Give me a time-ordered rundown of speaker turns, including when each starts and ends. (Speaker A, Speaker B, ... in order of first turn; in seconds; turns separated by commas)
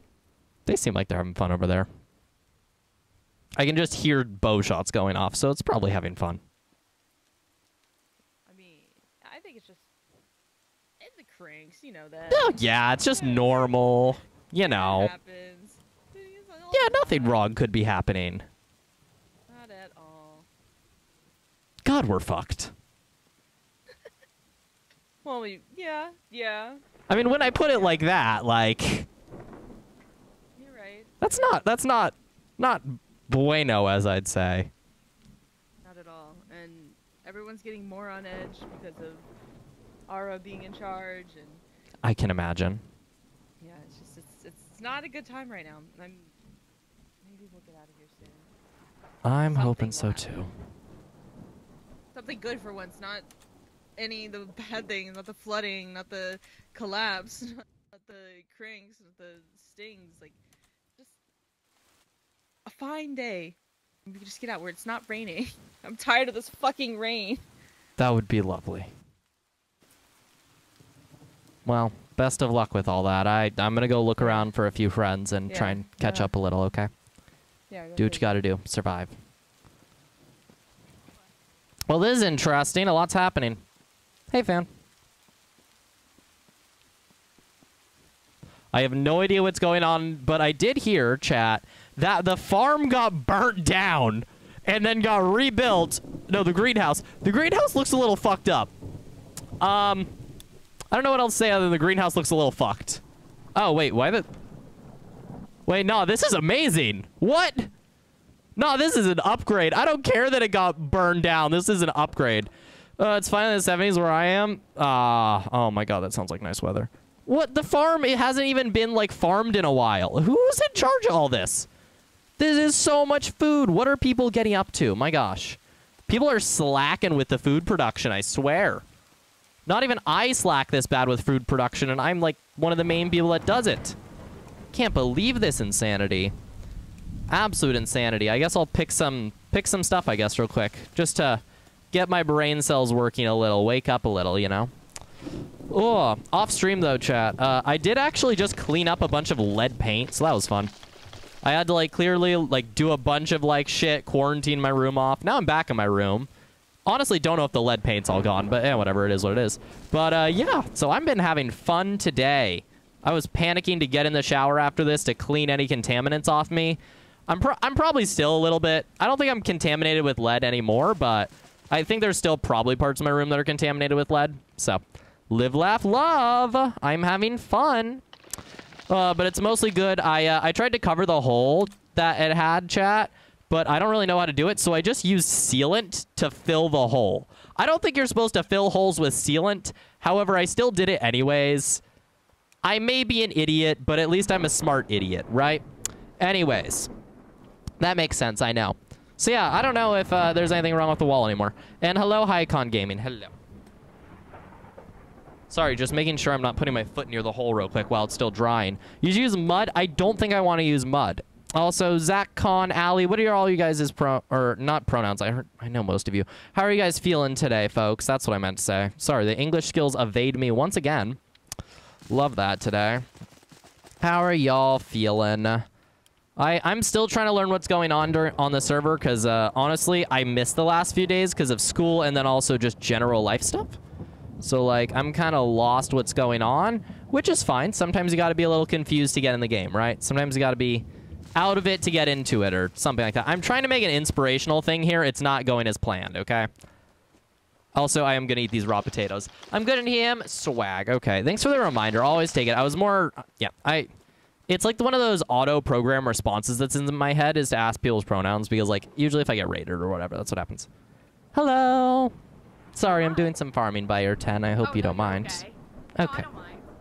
Speaker A: 0.7-1.9, Speaker A: 3.6-6.4, Speaker B: 8.4-9.9, Speaker B: 11.0-13.8, Speaker A: 12.3-15.1, Speaker B: 14.6-17.5, Speaker A: 16.7-18.5, Speaker B: 19.5-20.5, Speaker A: 21.9-22.7, Speaker B: 25.2-26.8, Speaker A: 27.1-29.1, Speaker B: 27.7-28.0, Speaker B: 30.6-31.4, Speaker A: 31.2-34.7, Speaker B: 35.8-39.3, Speaker B: 40.1-41.6, Speaker A: 42.0-42.8, Speaker B: 43.6-46.4, Speaker B: 47.2-48.5, Speaker A: 49.2-50.5, Speaker B: 49.5-50.3, Speaker B: 52.1-53.3, Speaker B: 54.0-60.4, Speaker B: 62.7-67.5, Speaker A: 68.0-68.9, Speaker A: 71.7-76.9, Speaker B: 74.2-74.5, Speaker B: 75.5-76.3, Speaker B: 77.7-78.4, Speaker A: 78.0-79.2, Speaker A: 81.9-83.6, Speaker A: 84.3-84.7, Speaker A: 88.7-98.7, Speaker A: 99.6-100.1, Speaker A: 100.9-103.0, Speaker A: 103.5-104.3, Speaker A: 105.7-107.7, Speaker A: 108.6-121.7, Speaker A: 122.4-128.8, Speaker A: 129.7-134.0, Speaker A: 134.7-136.3, Speaker A: 137.3-144.7, Speaker A: 145.7-150.7, Speaker A: 151.4-156.3, Speaker A: 156.9-178.0, Speaker A: 178.9-191.8, Speaker A: 192.6-195.6, Speaker A: 196.2-196.9, Speaker A: 197.8-203.3, Speaker A: 205.5-221.2, Speaker A: 222.1-223.1, Speaker A: 224.0-225.7, Speaker A: 226.4-233.8, Speaker A: 234.4-246.5, Speaker A: 247.7-253.9, Speaker A: 254.5-260.7, Speaker A: 261.3-262.1, Speaker A: 262.8-266.3, Speaker C: 262.9-263.3, Speaker C: 264.6-266.6